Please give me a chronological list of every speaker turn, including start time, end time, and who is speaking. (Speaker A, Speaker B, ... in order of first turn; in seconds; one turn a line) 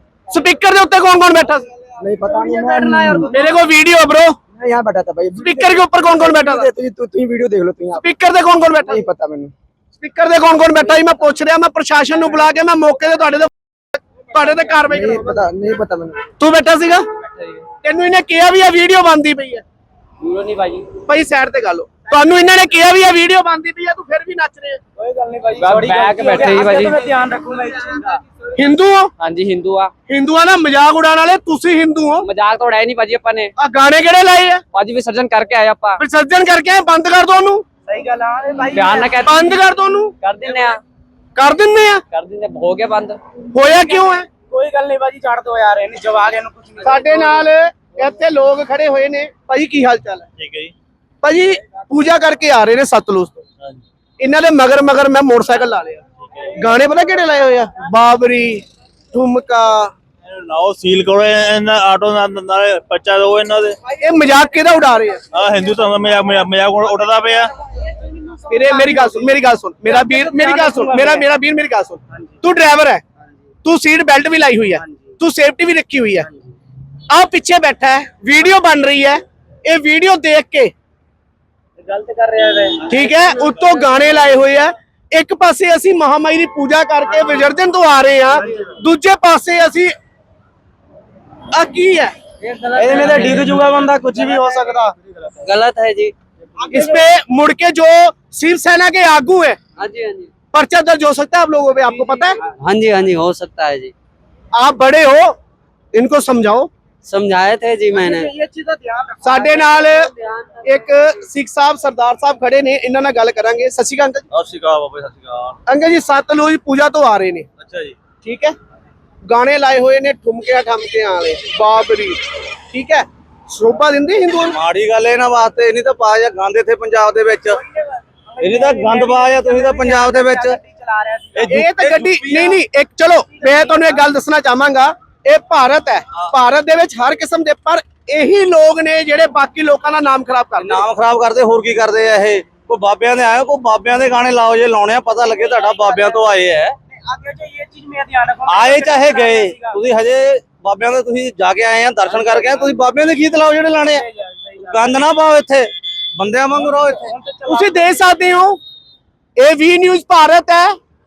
Speaker A: 0.3-1.6
Speaker B: 2.0-3.3
Speaker A: 3.3-4.4
Speaker B: 4.5-8.0
Speaker A: 5.4-6.7
Speaker A: 7.9-9.0
Speaker B: 8.8-9.5
Speaker A: 9.9-13.5
Speaker A: 14.3-15.4
Speaker B: 14.9-16.2
Speaker A: 16.4-17.0
Speaker A: 17.8-19.6
Speaker C: 20.2-20.9
Speaker A: 21.1-24.8
Speaker D: 25.0-28.2
Speaker C: 25.6-27.0
Speaker A: 28.5-29.1
Speaker C: 29.2-29.9
Speaker A: 30.1-32.3
Speaker C: 32.2-33.5
Speaker A: 33.6-34.6
Speaker C: 34.7-36.0
Speaker A: 36.0-37.6
Speaker D: 37.9-39.3
Speaker C: 38.7-39.5
Speaker A: 39.2-40.1
Speaker C: 40.2-40.8
Speaker A: 41.4-42.0
Speaker C: 42.1-43.2
Speaker A: 43.5-44.3
Speaker D: 44.5-47.4
Speaker A: 46.8-50.2
Speaker E: 50.4-50.7
Speaker A: 51.2-53.4
Speaker A: 54.2-56.0
Speaker A: 56.5-59.9
Speaker E: 60.3-63.8
Speaker A: 64.0-65.2
Speaker E: 65.3-67.5
Speaker A: 68.5-73.0
Speaker D: 69.9-71.2
Speaker A: 73.6-76.3
Speaker D: 74.8-75.1
Speaker A: 77.1-80.7
Speaker D: 81.9-82.7
Speaker A: 82.8-89.9
Speaker A: 91.5-92.1
Speaker C: 92.5-93.3
Speaker D: 92.7-94.9
Speaker F: 94.2-94.7
Speaker C: 95.4-96.1
Speaker A: 96.7-99.6
Speaker C: 99.8-100.3
Speaker A: 100.5-102.4
Speaker C: 102.4-103.9
Speaker A: 104.5-105.3
Speaker A: 105.9-106.7
Speaker C: 107.0-108.3
Speaker D: 107.9-109.1
Speaker A: 109.2-110.1
Speaker A: 110.6-114.2
Speaker F: 114.3-115.6
Speaker A: 115.7-117.5
Speaker F: 117.6-117.9
Speaker A: 118.2-118.5
Speaker A: 119.3-122.2
Speaker A: 122.7-124.6
Speaker F: 124.5-127.6
Speaker D: 128.3-131.6
Speaker F: 128.4-130.6
Speaker E: 131.3-131.9
Speaker A: 131.5-140.8
Speaker F: 131.6-132.6
Speaker D: 133.4-133.9
Speaker F: 140.6-146.8
Speaker D: 145.3-146.3
Speaker D: 146.9-149.8
Speaker F: 148.5-154.1
Speaker D: 152.0-152.8
Speaker D: 153.8-155.0
Speaker F: 154.6-157.1
Speaker D: 156.5-157.9
Speaker A: 157.5-158.6
Speaker A: 159.4-160.7